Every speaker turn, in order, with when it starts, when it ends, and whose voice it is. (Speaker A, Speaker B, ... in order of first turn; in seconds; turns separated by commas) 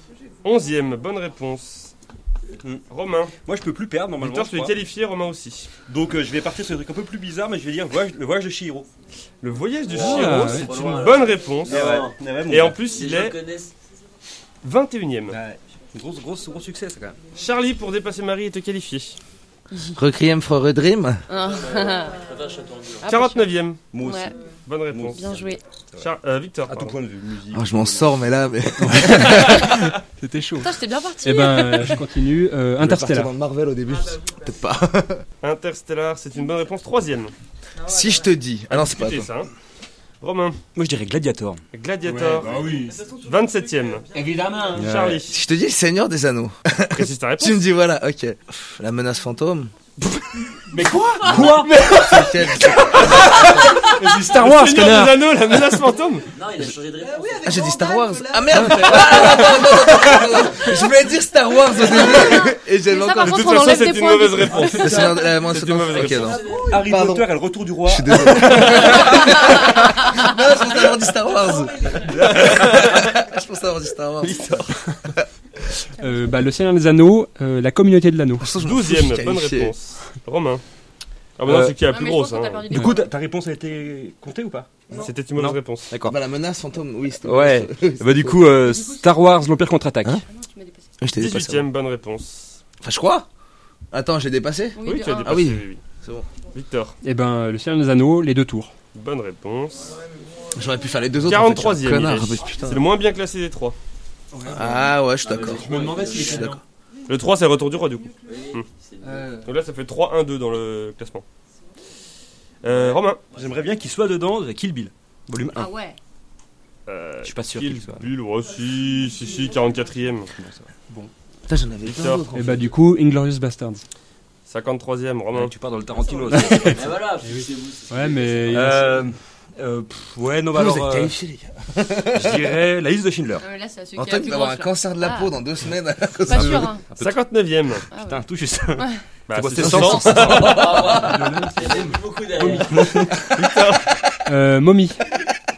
Speaker A: 0.4-1.9, Speaker A: 2.9-3.3, Speaker B: 3.4-4.7, Speaker A: 4.2-5.7, Speaker B: 5.8-8.9, Speaker A: 9.4-13.4, Speaker C: 9.9-13.7, Speaker B: 10.0-11.1, Speaker D: 10.0-10.7, Speaker B: 11.6-12.8, Speaker A: 14.6-15.4, Speaker B: 15.3-17.2, Speaker A: 17.3-19.2, Speaker E: 19.7-20.0, Speaker F: 19.9-21.2, Speaker E: 21.3-22.2, Speaker C: 21.4-23.1, Speaker E: 23.0-24.3, Speaker A: 23.0-23.8, Speaker B: 23.9-24.3, Speaker A: 24.7-25.3, Speaker B: 24.9-26.1, Speaker E: 25.1-25.6, Speaker A: 26.0-26.9, Speaker B: 26.7-28.1, Speaker F: 27.5-29.6, Speaker D: 28.8-33.3, Speaker E: 30.6-32.0, Speaker F: 32.8-35.2, Speaker A: 35.4-37.3, Speaker F: 37.8-39.3, Speaker A: 38.7-39.5, Speaker A: 40.2-40.6, Speaker B: 40.8-41.6, Speaker A: 41.7-44.1, Speaker D: 42.0-43.1, Speaker D: 44.1-44.9, Speaker B: 44.7-45.2, Speaker A: 44.7-45.4, Speaker F: 45.3-49.7, Speaker A: 46.9-47.6, Speaker D: 50.7-55.2, Speaker F: 51.3-53.5, Speaker A: 53.1-56.2, Speaker C: 56.3-57.8, Speaker F: 57.4-63.6, Speaker D: 58.6-59.3, Speaker E: 61.8-65.0, Speaker A: 63.2-66.4, Speaker F: 64.7-67.3, Speaker C: 65.9-67.0, Speaker B: 66.6-69.0, Speaker F: 67.8-75.2, Speaker A: 68.4-69.3, Speaker C: 71.2-72.1, Speaker A: 72.2-73.1, Speaker D: 76.0-78.5, Speaker F: 78.4-79.7, Speaker A: 78.6-80.6, Speaker A: 81.4-82.9, Speaker B: 81.4-81.8, Speaker E: 81.9-83.1, Speaker B: 82.7-84.7, Speaker A: 84.9-85.9, Speaker B: 85.3-86.2, Speaker F: 86.0-88.7, Speaker B: 87.2-90.2, Speaker E: 88.7-89.0, Speaker E: 90.2-90.9, Speaker F: 91.0-91.6, Speaker A: 91.1-92.6, Speaker F: 92.8-93.2, Speaker F: 93.9-96.3, Speaker E: 94.8-95.4, Speaker A: 94.8-95.8, Speaker A: 96.5-97.0, Speaker D: 97.0-98.7, Speaker A: 98.9-99.9, Speaker F: 100.5-102.8, Speaker A: 101.2-103.8, Speaker C: 102.4-102.8, Speaker D: 104.3-104.8, Speaker F: 104.5-106.6, Speaker C: 105.2-106.5, Speaker D: 105.5-106.6, Speaker B: 105.7-106.2, Speaker A: 107.1-108.7, Speaker C: 108.2-109.4, Speaker D: 109.0-109.4, Speaker A: 109.4-111.2, Speaker A: 112.6-113.2, Speaker C: 112.7-113.6, Speaker B: 113.3-115.7, Speaker E: 115.5-116.0, Speaker A: 116.9-120.3, Speaker B: 117.2-118.1, Speaker B: 120.3-120.7, Speaker F: 121.5-122.7, Speaker A: 121.9-122.3, Speaker D: 122.3-123.8, Speaker A: 124.5-125.5, Speaker B: 125.3-126.9, Speaker C: 126.2-129.1, Speaker D: 126.3-129.0, Speaker B: 128.5-131.1, Speaker F: 130.5-132.5, Speaker B: 132.0-133.4, Speaker E: 133.4-135.3, Speaker F: 134.0-136.7, Speaker E: 136.2-136.8, Speaker B: 136.3-137.1, Speaker A: 137.0-137.8, Speaker E: 137.9-138.2, Speaker B: 138.0-140.6, Speaker A: 139.3-141.0, Speaker F: 139.6-141.3, Speaker C: 140.2-143.1, Speaker D: 140.9-143.1, Speaker B: 142.7-143.5, Speaker A: 143.2-143.9, Speaker D: 144.2-145.0